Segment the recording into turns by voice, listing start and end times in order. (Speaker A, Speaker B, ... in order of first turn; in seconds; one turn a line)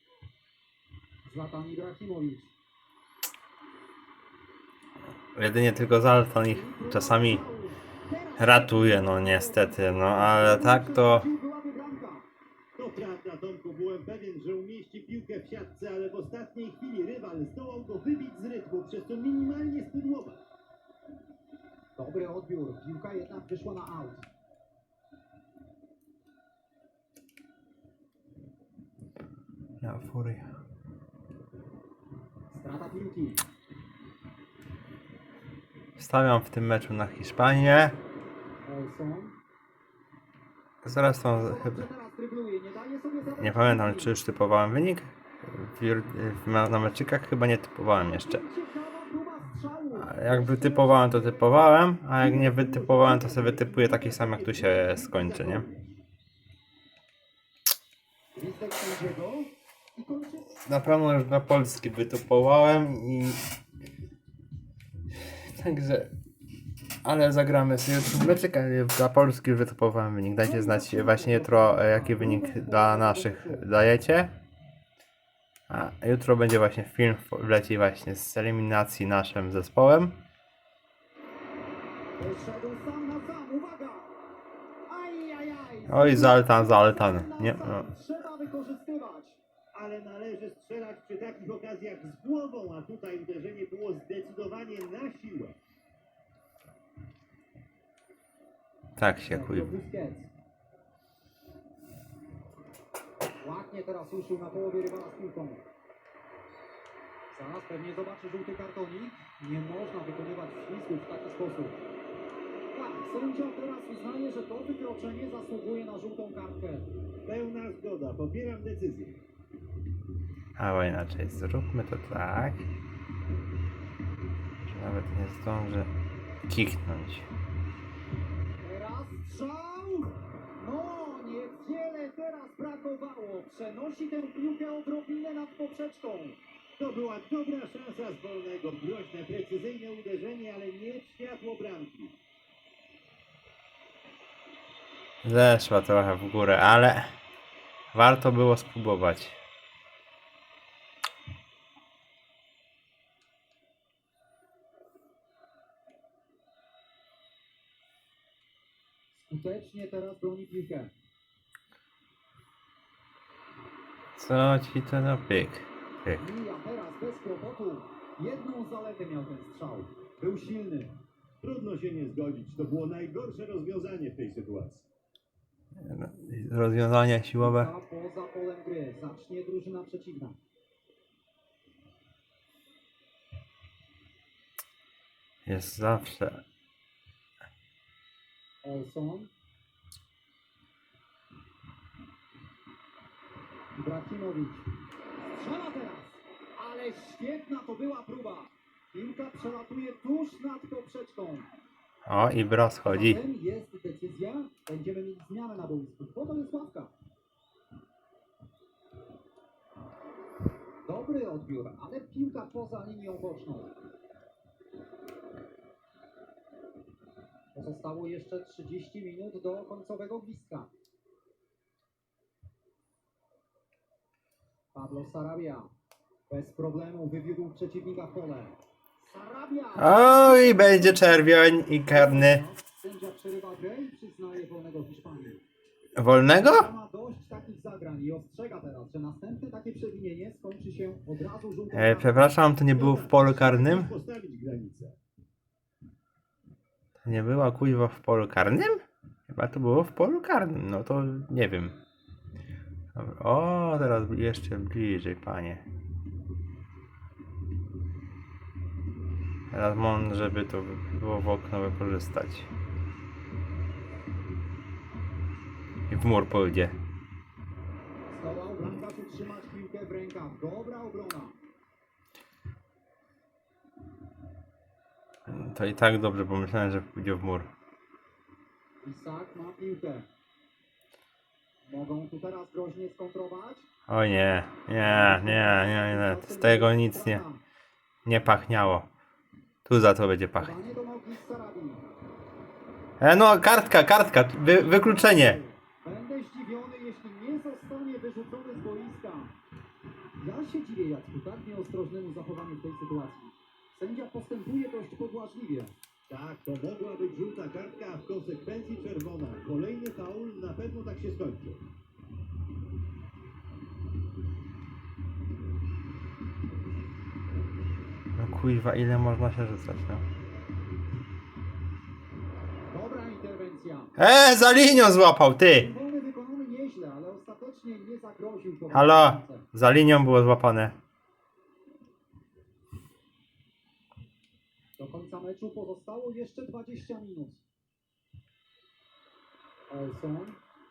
Speaker A: 1.3-2.5
Speaker B: 5.3-7.4
Speaker A: 6.4-12.3
Speaker B: 8.4-11.3
Speaker C: 12.8-20.4
Speaker A: 22.0-24.3
Speaker B: 29.8-30.5
Speaker A: 32.5-33.4
Speaker B: 36.0-38.0
Speaker A: 38.7-39.4
Speaker B: 40.8-41.8
Speaker A: 41.2-44.1
Speaker B: 43.4-48.4
Speaker A: 48.1-51.6
Speaker B: 50.0-55.7
Speaker C: 52.2-56.0
Speaker A: 58.4-60.6
Speaker B: 60.7-63.5
Speaker B: 65.2-66.1
Speaker B: 67.0-74.4
Speaker A: 70.4-73.7
Speaker B: 75.7-80.2
Speaker A: 82.2-84.1
Speaker A: 84.9-89.4
Speaker B: 85.9-87.9
Speaker C: 89.7-95.6
Speaker B: 99.0-99.7
Speaker A: 99.3-100.3
Speaker A: 103.4-105.6
Speaker A: 107.3-111.8
Speaker A: 112.7-116.9
Speaker C: 117.3-119.2
Speaker B: 120.6-122.7
Speaker B: 124.7-125.9
Speaker B: 126.4-127.3
Speaker A: 128.6-136.4
Speaker C: 136.8-142.2
Speaker B: 145.2-147.2
Speaker B: 147.9-149.4
Speaker A: 159.1-160.9
Speaker B: 164.2-166.2
Speaker A: 166.2-171.0
Speaker C: 171.4-174.9
Speaker B: 175.8-177.7
Speaker A: 177.4-180.4
Speaker B: 185.4-186.4
Speaker A: 188.6-189.3
Speaker A: 193.8-194.7
Speaker A: 195.3-201.5
Speaker B: 202.1-203.2
Speaker A: 202.9-206.9
Speaker A: 210.9-213.7
Speaker A: 217.5-220.7
Speaker A: 224.7-225.7
Speaker A: 226.3-235.4
Speaker B: 229.8-232.4
Speaker B: 236.0-236.7
Speaker A: 236.3-242.3
Speaker B: 241.7-243.9
Speaker C: 242.6-245.0
Speaker B: 247.0-251.8
Speaker B: 252.9-255.6
Speaker B: 259.5-262.5
Speaker B: 265.9-266.8
Speaker A: 268.1-271.4
Speaker B: 275.3-277.5
Speaker A: 278.8-280.1
Speaker A: 281.6-283.7
Speaker B: 283.9-287.2
Speaker A: 284.8-287.4
Speaker B: 288.1-288.9
Speaker B: 289.7-290.6
Speaker A: 290.4-291.9
Speaker B: 293.0-295.4
Speaker A: 294.4-299.4
Speaker A: 300.2-305.7
Speaker C: 306.1-311.6
Speaker B: 318.2-320.0
Speaker A: 322.7-323.9
Speaker B: 324.0-325.7
Speaker A: 325.5-329.5
Speaker B: 328.7-330.8
Speaker A: 334.8-337.4
Speaker A: 339.7-340.4